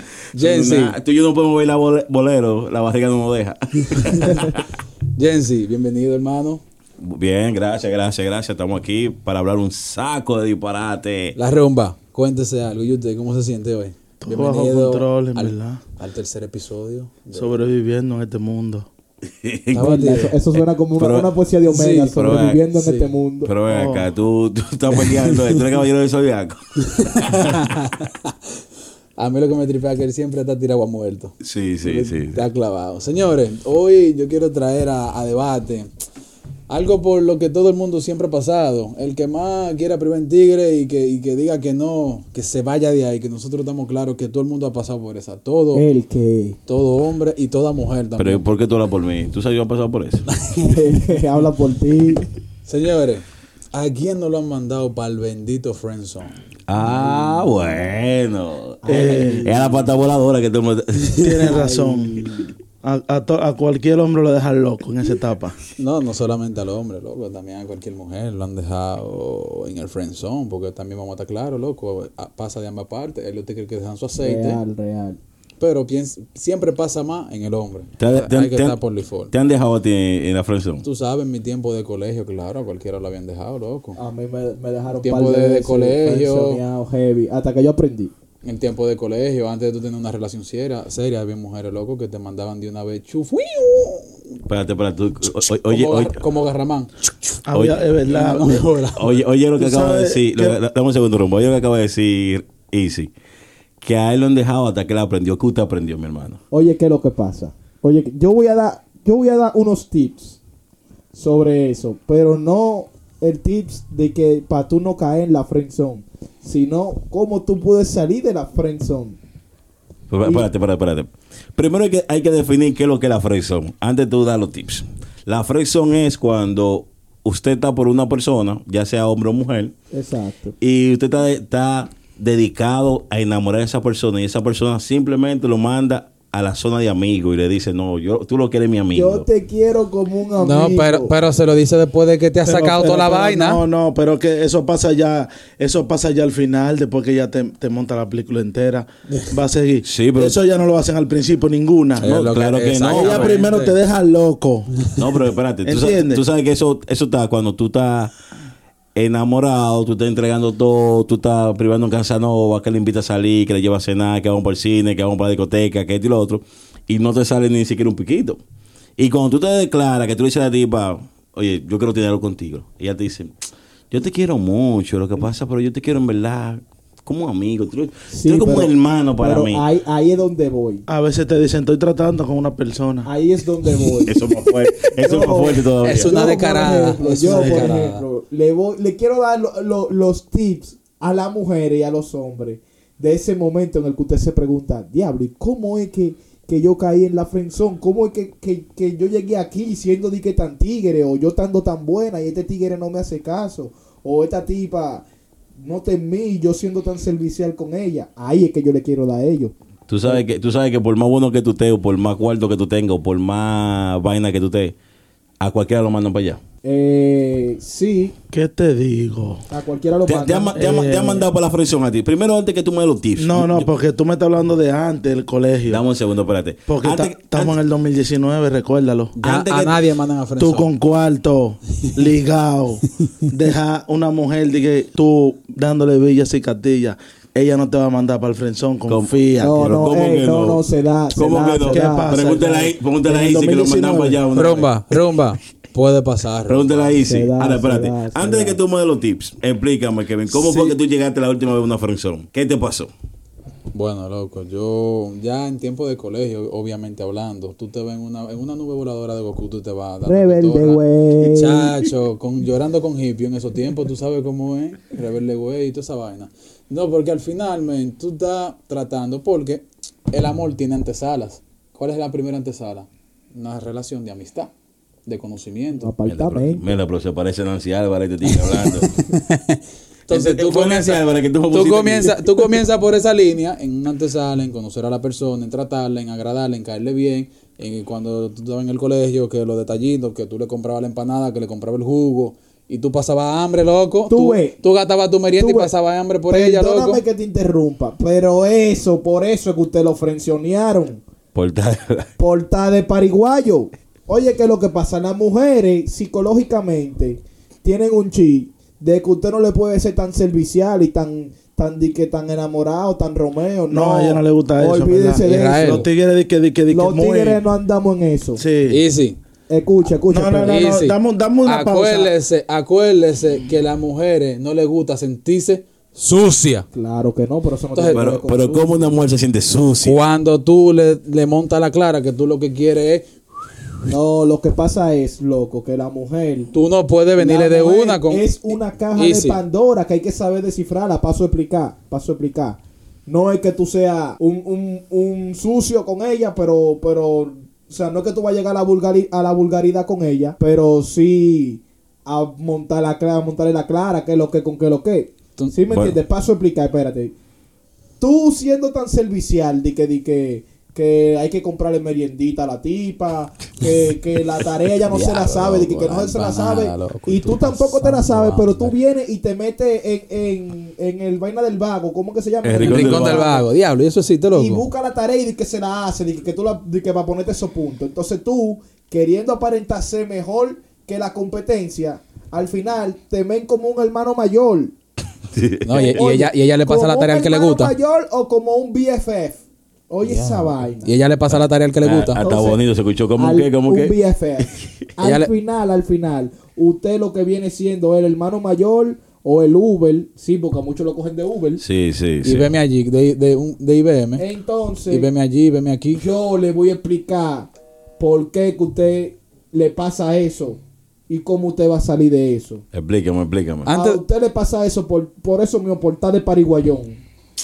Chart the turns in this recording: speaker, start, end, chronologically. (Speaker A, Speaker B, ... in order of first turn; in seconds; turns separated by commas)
Speaker A: 0.3-1.0, Speaker B: 0.3-4.6, Speaker A: 3.9-4.5, Speaker A: 5.2-6.6, Speaker B: 7.0-11.4, Speaker A: 11.4-17.6, Speaker C: 14.2-15.8, Speaker C: 17.3-18.9, Speaker B: 19.2-21.3, Speaker A: 19.7-20.4, Speaker D: 19.8-23.5, Speaker A: 21.7-22.1, Speaker B: 22.1-22.6, Speaker A: 22.7-23.2, Speaker B: 23.4-27.7, Speaker C: 23.7-24.1, Speaker A: 25.0-25.6, Speaker A: 26.9-28.4, Speaker A: 29.2-35.9, Speaker B: 31.4-32.4, Speaker A: 36.7-45.9, Speaker D: 45.7-46.6, Speaker A: 46.7-48.5, Speaker B: 48.2-50.3, Speaker A: 50.3-50.8, Speaker D: 50.6-52.3, Speaker A: 52.7-56.3, Speaker B: 56.7-61.5, Speaker D: 58.9-59.8, Speaker C: 58.9-59.5, Speaker C: 61.2-65.6, Speaker D: 61.4-62.5, Speaker A: 65.8-74.6, Speaker D: 74.2-75.2, Speaker A: 75.6-79.3, Speaker B: 78.0-78.8, Speaker B: 79.3-80.8, Speaker A: 80.8-84.0, Speaker D: 84.0-88.1, Speaker A: 85.0-86.6, Speaker A: 88.4-94.4, Speaker B: 94.5-96.2, Speaker A: 95.5-97.4, Speaker C: 97.5-98.7, Speaker B: 97.5-97.8, Speaker A: 98.1-99.2, Speaker B: 99.0-103.1, Speaker C: 99.6-100.6, Speaker B: 103.8-106.4, Speaker D: 106.5-110.4, Speaker D: 111.1-119.2, Speaker B: 120.1-129.7, Speaker D: 129.9-130.6, Speaker B: 130.6-139.3, Speaker D: 138.9-141.1, Speaker A: 140.4-143.6, Speaker C: 142.4-152.2, Speaker B: 149.8-150.4, Speaker A: 152.0-153.8, Speaker B: 152.0-153.4, Speaker C: 152.8-154.9, Speaker B: 155.0-158.1, Speaker C: 155.6-156.2, Speaker B: 158.9-168.4, Speaker B: 169.0-173.3, Speaker B: 173.9-179.6, Speaker D: 178.1-180.8, Speaker C: 180.9-183.1, Speaker D: 183.1-184.2, Speaker A: 183.8-184.5, Speaker B: 184.1-186.3, Speaker D: 185.0-205.1, Speaker A: 185.8-188.0, Speaker C: 187.3-187.7, Speaker D: 205.6-209.5, Speaker B: 209.9-214.8, Speaker B: 215.4-216.4, Speaker D: 216.6-218.2, Speaker C: 218.3-219.5, Speaker D: 219.5-221.2, Speaker B: 220.1-223.7, Speaker C: 220.5-221.2, Speaker C: 223.2-225.8, Speaker B: 225.7-227.6, Speaker C: 226.7-229.2, Speaker A: 229.2-230.7, Speaker B: 229.2-229.8, Speaker C: 230.4-239.7, Speaker B: 238.9-240.6, Speaker D: 239.4-242.3, Speaker B: 241.1-244.7, Speaker C: 241.7-244.2, Speaker A: 244.3-246.9, Speaker B: 246.5-252.9, Speaker D: 247.0-248.6, Speaker C: 250.3-250.8, Speaker A: 253.7-274.5, Speaker D: 260.0-261.8, Speaker A: 275.1-275.9, Speaker D: 275.8-276.7, Speaker B: 276.1-278.9, Speaker A: 278.6-297.0, Speaker B: 280.1-282.6, Speaker D: 294.1-294.6, Speaker D: 295.4-295.7, Speaker D: 296.3-301.0, Speaker B: 301.3-302.1, Speaker D: 302.2-315.9, Speaker C: 313.7-317.4, Speaker A: 315.2-315.9, Speaker D: 316.7-318.4, Speaker C: 318.4-318.8, Speaker A: 318.7-319.2, Speaker D: 319.5-320.7, Speaker C: 320.1-322.1, Speaker A: 320.4-326.7, Speaker D: 326.7-328.8, Speaker A: 327.7-328.0, Speaker B: 327.9-330.0, Speaker A: 329.8-333.1, Speaker D: 333.9-336.5, Speaker A: 336.5-338.3, Speaker D: 337.2-357.1, Speaker A: 338.9-339.4, Speaker B: 355.7-356.0, Speaker D: 358.0-373.5, Speaker A: 364.9-368.8, Speaker B: 372.4-373.3, Speaker A: 372.6-374.7, Speaker D: 374.4-384.7, Speaker B: 385.3-386.0, Speaker A: 385.6-387.7, Speaker D: 385.7-390.9, Speaker A: 390.0-392.2, Speaker B: 391.3-394.0, Speaker D: 392.2-392.6, Speaker D: 393.2-401.6, Speaker A: 395.0-395.3, Speaker B: 401.6-402.5, Speaker A: 402.2-404.2, Speaker D: 404.2-405.1, Speaker A: 404.9-406.0, Speaker D: 406.0-412.6, Speaker B: 412.7-413.7, Speaker A: 413.6-414.0, Speaker D: 413.7-417.0